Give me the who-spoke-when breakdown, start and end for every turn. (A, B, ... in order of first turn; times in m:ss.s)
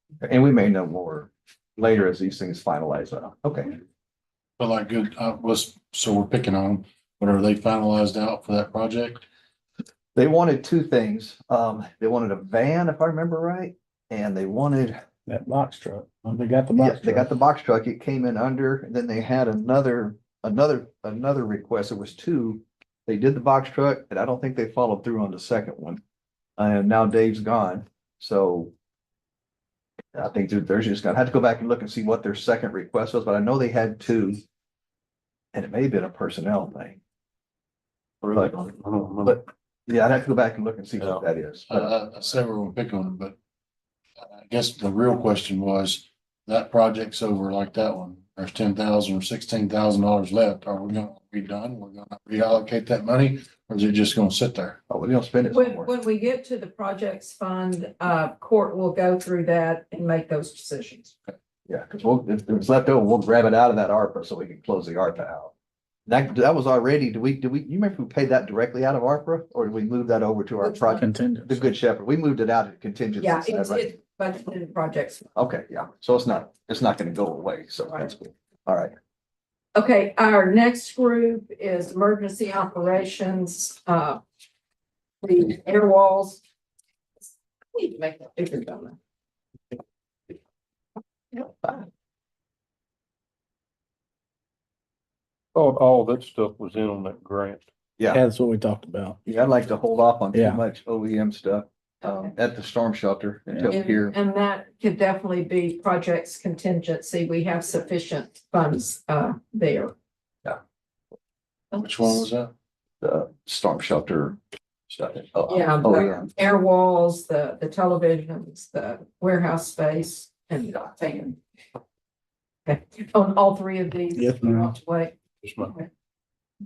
0:00.2-0:03.8 A
0:04.6-0:09.2 B
0:10.2-0:15.0 A
0:15.3-0:17.3 C
0:16.8-0:26.0 A
0:26.6-0:28.7 A
0:30.1-0:34.4 A
0:35.5-0:37.0 A
0:38.2-0:41.9 A
0:38.8-0:39.4 D
0:41.0-0:41.2 D
0:41.7-0:43.3 B
0:44.2-0:54.8 B
0:54.9-0:55.9 A
0:55.5-1:01.1 E
1:01.7-1:05.5 A
1:06.1-1:13.9 A
1:10.6-1:11.0 E
1:11.0-1:11.7 C
1:13.2-1:15.2 E
1:15.4-1:18.9 A
1:19.7-1:24.2 E
1:25.2-1:26.4 E
1:27.7-1:29.0 E
1:35.5-1:37.6 D
1:38.1-1:39.2 C
1:39.2-1:44.1 A
1:40.3-1:40.6 C
1:42.0-1:42.3 E
1:43.7-1:49.9 E
1:51.7-1:52.2 E
1:51.7-1:52.5 B
1:53.0-1:56.3 A
1:55.5-2:01.4 E
2:02.6-2:05.9 E
2:04.2-2:04.7 C
2:05.4-2:05.7 D